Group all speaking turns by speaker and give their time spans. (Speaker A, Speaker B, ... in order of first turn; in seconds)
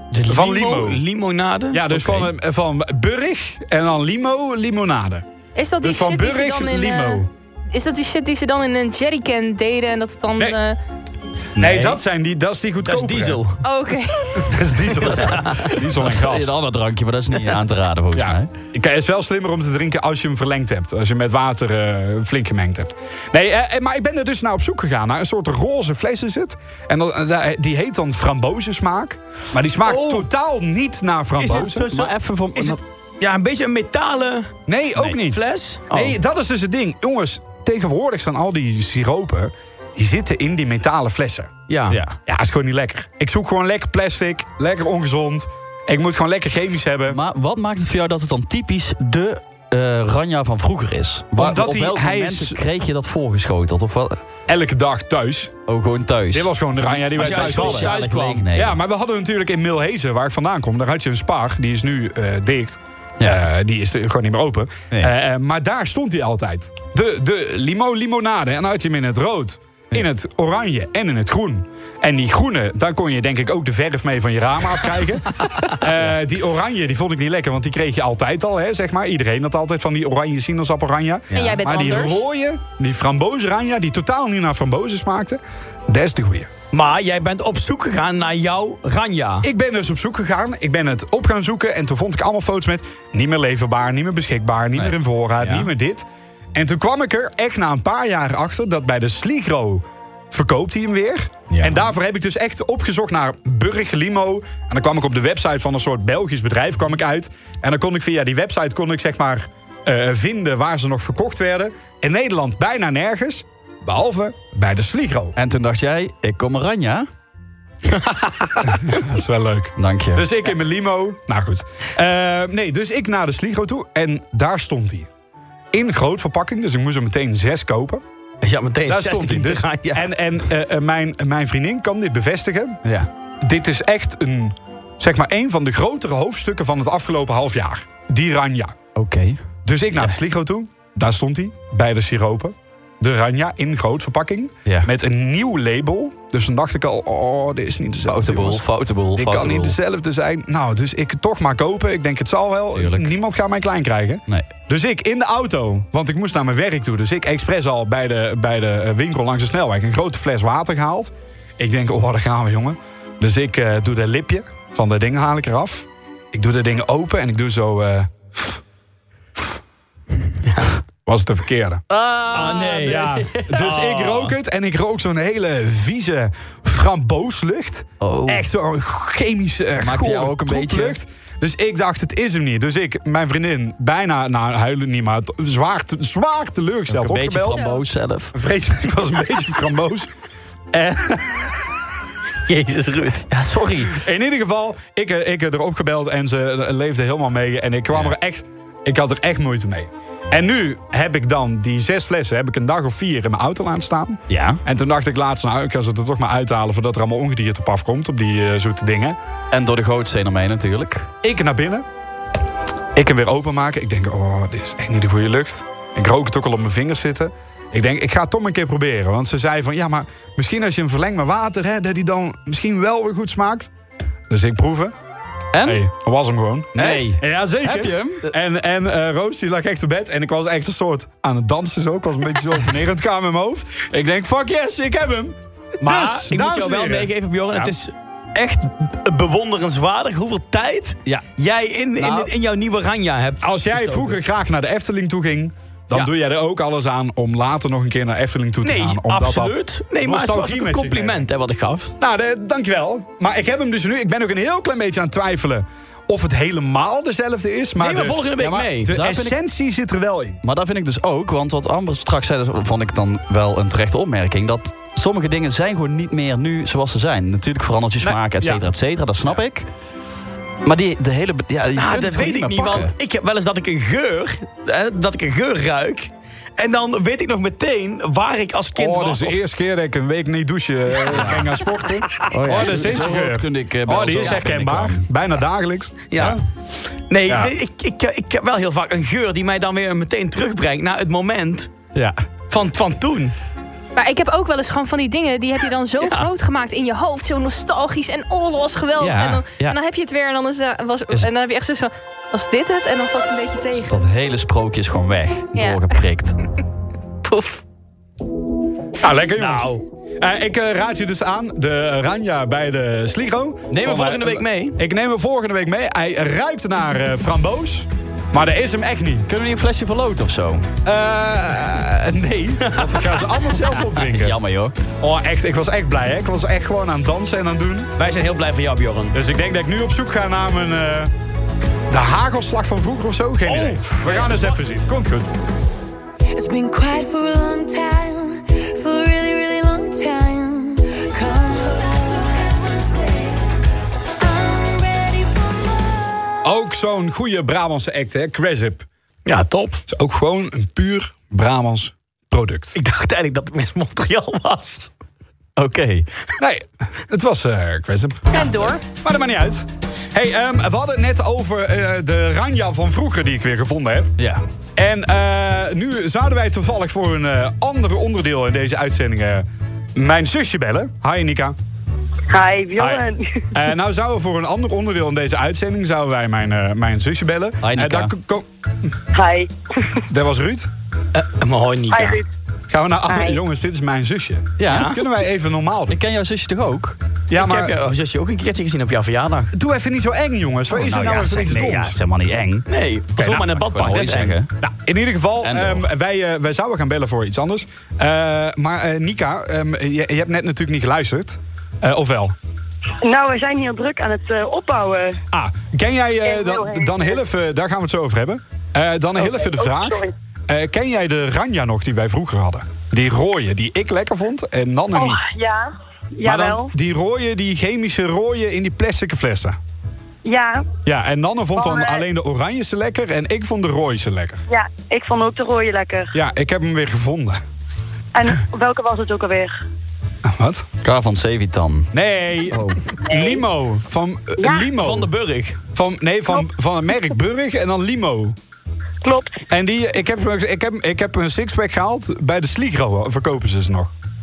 Speaker A: 0.1-2.3, 11.6-11.9, 12.8-13.6, 14.9-15.8, 29.9-30.3, 31.4-34.5, 35.1-36.2, 41.7-42.0, 57.2-58.5, 86.7-89.5, 117.9-118.8, 128.4-130.1, 172.3-174.3, 192.5-193.3, 235.8-244.1, 248.6-251.9, 257.8-259.2, 271.8-279.4, 282.1-282.9, 286.1-286.4, 287.1-291.7, 292.5-293.4, 296.0-296.3, 309.4-309.8, 313.7-314.8, 322.7-323.1, 328.0-329.2, 333.5-334.6, 349.3-349.8, 352.8-354.9, 381.1-382.2, 384.7-385.0, 387.3-389.5, 392.7-394.4, 434.8-435.6
Speaker B: 0.3-1.0, 1.7-5.2, 5.8-7.3, 11.6-13.4, 14.5-16.5, 18.1-31.9, 34.7-41.5, 42.3-47.2, 51.4-52.6, 54.5-55.5, 56.3-58.0, 58.5-86.5, 89.4-115.4, 118.7-125.1, 125.7-128.0, 128.9-132.8, 133.4-138.8, 139.7-148.7, 149.2-168.6, 171.1-171.8, 172.3-187.6, 188.3-190.1, 190.7-191.6, 194.0-209.2, 211.2-211.9, 212.9-223.7, 224.3-224.9, 225.7-237.7, 243.4-251.3, 252.0-260.4, 268.0-268.6, 278.8-286.4, 287.3-287.5, 309.0-319.3, 320.8-324.4, 325.0-327.9, 329.1-331.1, 331.9-335.4, 346.4-348.9, 349.9-352.8, 356.4-364.1, 364.8-371.6, 372.8-378.4, 380.1-380.7, 382.7-386.0, 387.3-387.8, 389.5-392.0, 393.2-394.1, 394.6-402.4, 405.3-415.2, 416.2-419.6, 420.9-424.4, 426.1-427.4, 430.2-430.6, 431.9-435.1, 435.8-438.4, 439.5-443.9
Speaker C: 5.6-10.8, 13.6-14.4, 81.3-82.2, 294.0-304.0, 305.6-305.9, 307.2-307.6, 358.3-358.8
Speaker D: 16.0-18.5, 31.5-32.8, 41.9-42.2, 47.1-54.2, 55.7-58.8, 81.3-81.6, 101.5-101.8, 115.4-117.1, 119.8-120.2, 138.9-139.4, 148.1-149.8, 152.7-153.1, 171.9-172.8, 178.0-178.5, 179.8-181.0, 186.9-188.3, 193.3-194.0, 204.3-204.6, 209.5-211.1, 225.5-225.8, 226.8-228.3, 242.0-242.3, 260.4-269.7, 270.6-272.9, 281.1-281.4, 282.3-285.1, 291.9-292.2, 299.0-299.8, 303.8-306.4, 319.3-320.7, 323.9-324.8, 355.6-356.1, 364.2-364.4, 377.6-378.1, 384.6-384.9, 385.9-387.0, 390.7-392.7, 393.2-394.5, 395.4-395.9, 430.8-431.9, 432.5-432.8
Speaker E: 336.3-343.4, 344.2-346.3
Speaker F: 372.3-373.2, 379.1-380.0, 381.9-382.2, 383.1-383.4, 403.0-405.2, 406.2-407.2, 409.2-410.1, 414.9-416.7, 420.2-420.7, 421.6-422.0, 424.5-426.1, 428.1-429.5, 433.1-433.4, 434.4-434.7, 439.0-439.4